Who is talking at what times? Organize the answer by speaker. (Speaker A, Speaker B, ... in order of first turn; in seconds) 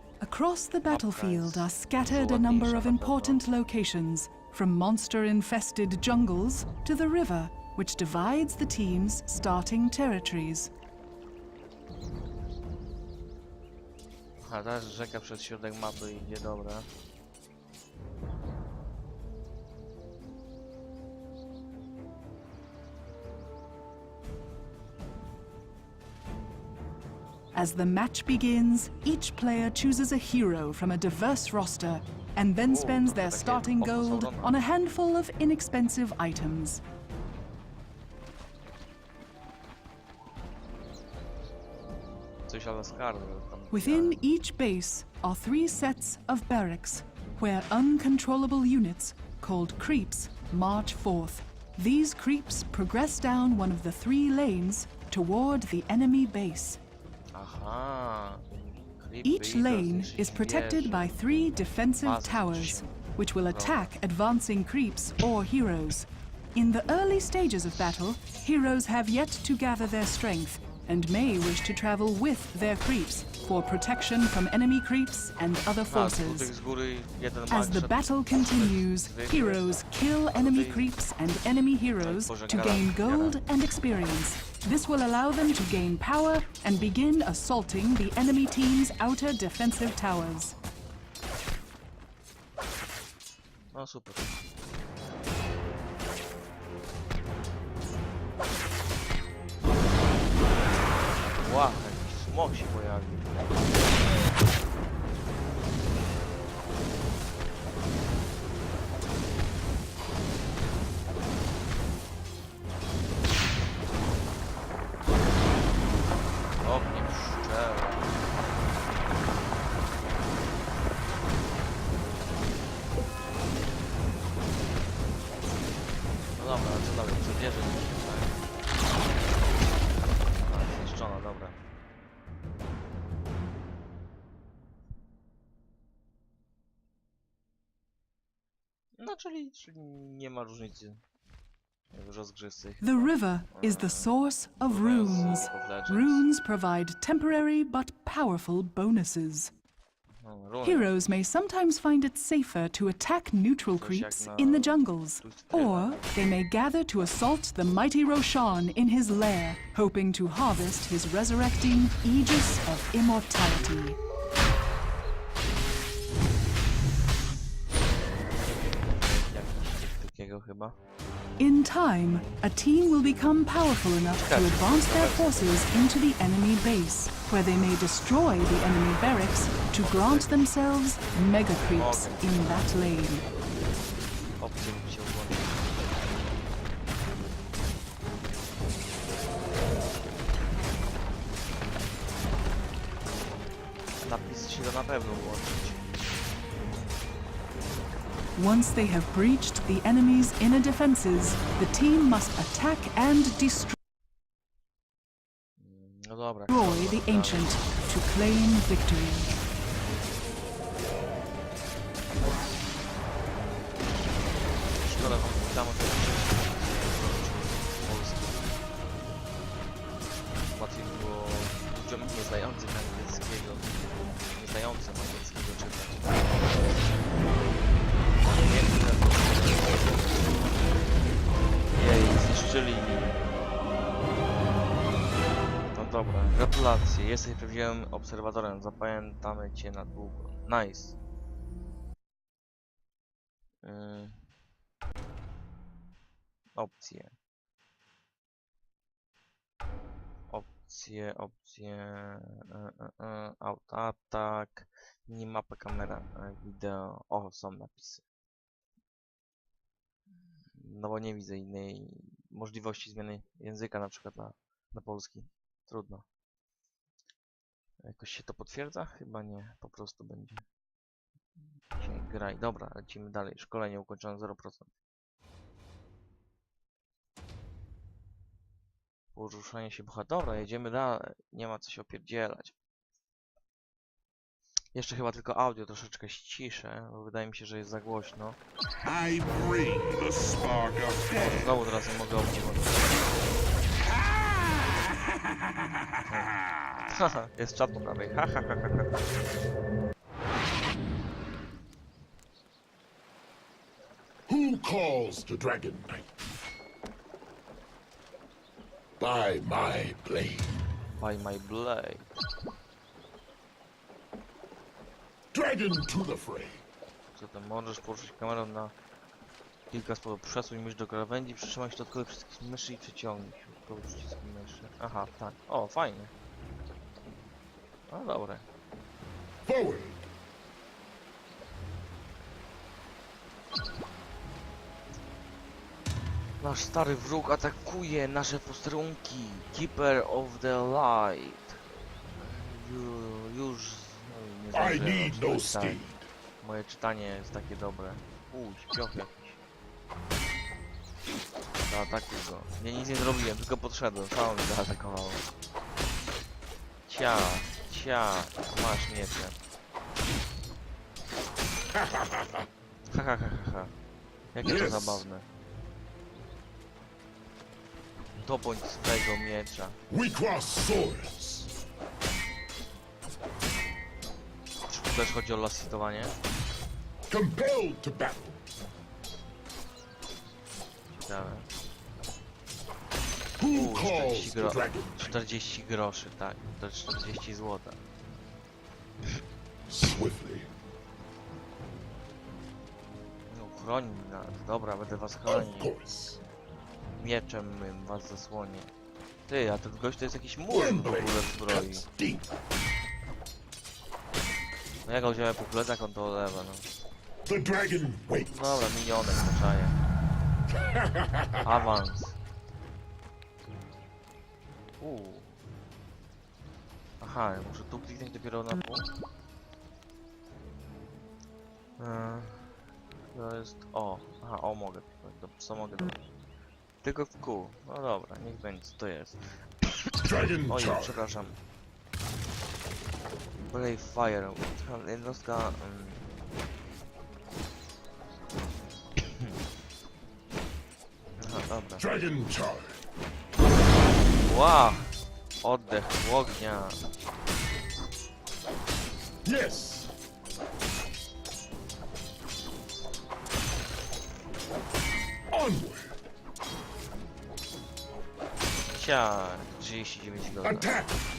Speaker A: 0.2-10.7, 27.5-36.8, 43.7-56.8, 59.2-76.5, 77.5-90.5, 142.8-149.5, 150.6-164.0, 171.4-183.3, 198.4-203.8, 206.5-209.3
Speaker B: 0.9-3.4, 14.4-16.9, 32.6-34.6, 42.5-44.2, 57.3-61.1, 62.0-62.9, 63.5-63.9, 75.9-79.7, 80.3-80.9, 82.0-83.4, 93.7-94.3, 101.3-103.7, 116.6-118.2, 126.4-128.4, 130.3-131.6, 139.0-141.0, 141.9-144.1, 144.7-146.2, 150.2-151.1, 153.7-156.2, 168.9-170.8, 174.1-175.7, 179.8-180.5, 181.6-183.3, 184.4-186.1, 194.0-195.9, 205.6-207.8, 213.8-218.6, 220.5-223.7, 224.3-226.8, 228.2-230.5, 231.8-233.3, 235.7-241.0, 243.6-244.2, 246.6-247.2, 250.3-258.1, 260.6-266.1, 267.8-270.5, 271.8-274.7, 279.1-282.6, 284.7-288.4, 291.2-293.0, 296.1-296.3, 296.9-299.0, 311.0-312.2, 317.1-318.7, 319.7-326.1, 327.9-328.5, 336.4-341.6, 342.1-345.8, 346.4-349.4, 351.6-355.3, 356.9-359.4, 362.9-363.7, 364.3-365.3, 368.2-369.8, 374.7-376.1, 380.9-381.5, 383.5-387.8, 393.3-395.7, 397.0-398.7, 399.3-401.9, 404.9-406.7, 408.3-409.8, 411.4-412.2, 414.8-415.4, 417.0-418.9, 421.8-422.6, 423.1-426.0, 426.8-431.4, 433.5-436.1, 439.0-439.3, 441.2-441.9, 444.2-446.8, 458.7-460.7
Speaker C: 288.8-291.5, 293.9-296.7, 304.3-306.1, 309.0-310.7, 315.3-316.6, 329.5-330.1, 344.5-346.1, 361.7-362.5, 364.4-365.1, 369.9-371.5, 377.1-378.4, 383.4-385.2, 389.7-390.5, 395.3-396.2, 400.5-402.3, 407.3-408.6, 410.5-411.6, 430.0-431.0, 441.8-442.8, 449.2-449.9, 455.3-456.0, 460.4-461.0